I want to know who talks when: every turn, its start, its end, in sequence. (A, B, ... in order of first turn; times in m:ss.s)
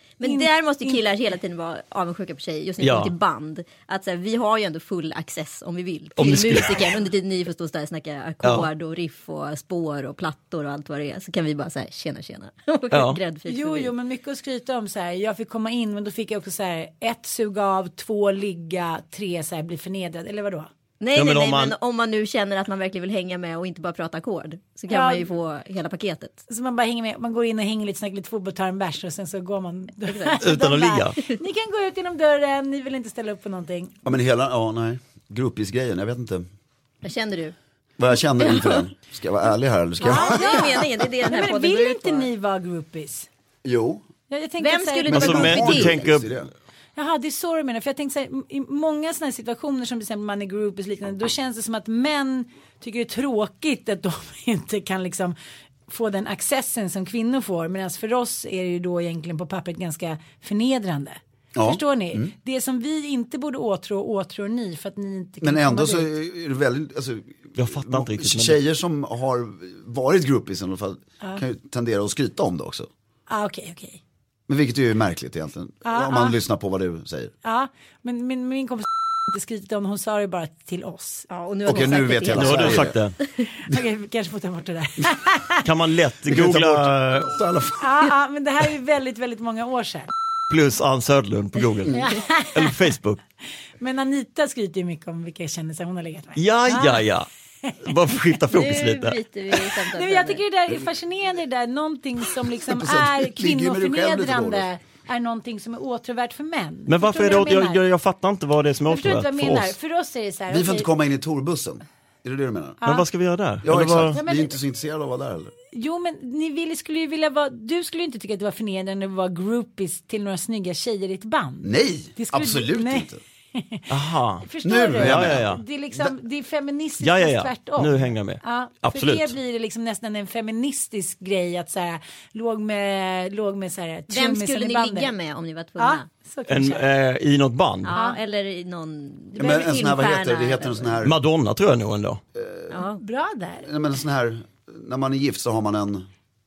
0:00.2-0:13.9 A
0:00.2-0:01.0 B
0:02.8-0:03.1 C
0:06.2-0:06.9 C
0:08.4-0:08.7 C
0:12.9-0:13.2 C
0:13.5-0:20.7 B
0:21.0-0:26.4 A
0:21.2-0:21.8 C
0:24.9-0:25.3 B
0:26.5-0:34.0 B
0:30.1-0:30.4 A
0:30.4-0:31.2 C
0:34.0-0:36.5 D
0:37.0-0:37.6 A
0:38.0-0:40.9 D
0:38.3-0:38.9 A
0:40.0-0:42.3 A
0:40.0-0:43.3 B
0:43.6-0:44.0 D
0:44.3-0:45.3 B
0:44.6-0:46.0 A
0:45.1-0:46.5 D
0:45.1-0:46.3 C
0:47.0-0:55.4 B
0:55.9-1:06.1 B
1:01.5-1:02.3 D
1:05.4-1:12.9 D
1:07.6-1:08.6 C
1:13.3-1:14.0 B
1:14.5-1:17.3 D
1:15.8-1:16.4 B
1:17.4-1:21.3 B
1:21.3-1:23.5 A
1:21.7-1:23.0 D
1:22.3-1:23.2 C
1:23.7-1:25.6 B
1:25.6-1:27.4 C
1:26.3-1:28.0 D
1:27.8-1:30.1 B
1:30.5-1:33.2 C
1:31.9-1:32.1 D
1:31.9-1:32.7 B
1:33.8-1:37.0 B
1:36.4-1:37.3 C
1:37.8-1:39.2 C
1:38.5-1:40.4 A
1:39.6-1:47.8 B
1:42.6-1:44.7 D
1:46.9-1:49.7 C
1:48.9-1:50.9 B
1:50.5-1:52.8 D
1:52.8-1:53.1 B
1:52.8-1:54.2 C
1:53.6-1:55.5 D
1:54.1-1:54.6 B
1:55.7-2:03.9 B
2:01.6-2:03.2 D
2:03.9-2:05.6 C
2:04.4-2:15.1 B
2:04.6-2:06.1 D
2:07.0-2:09.3 C
2:14.1-2:16.1 A
2:15.8-2:16.8 B
2:16.5-2:17.9 C
2:17.8-2:21.0 A
2:17.9-2:18.2 B
2:19.4-2:21.2 D
2:21.0-2:22.2 C
2:22.4-2:22.8 D
2:22.7-2:23.0 A
2:22.8-2:23.7 B
2:23.6-2:26.1 D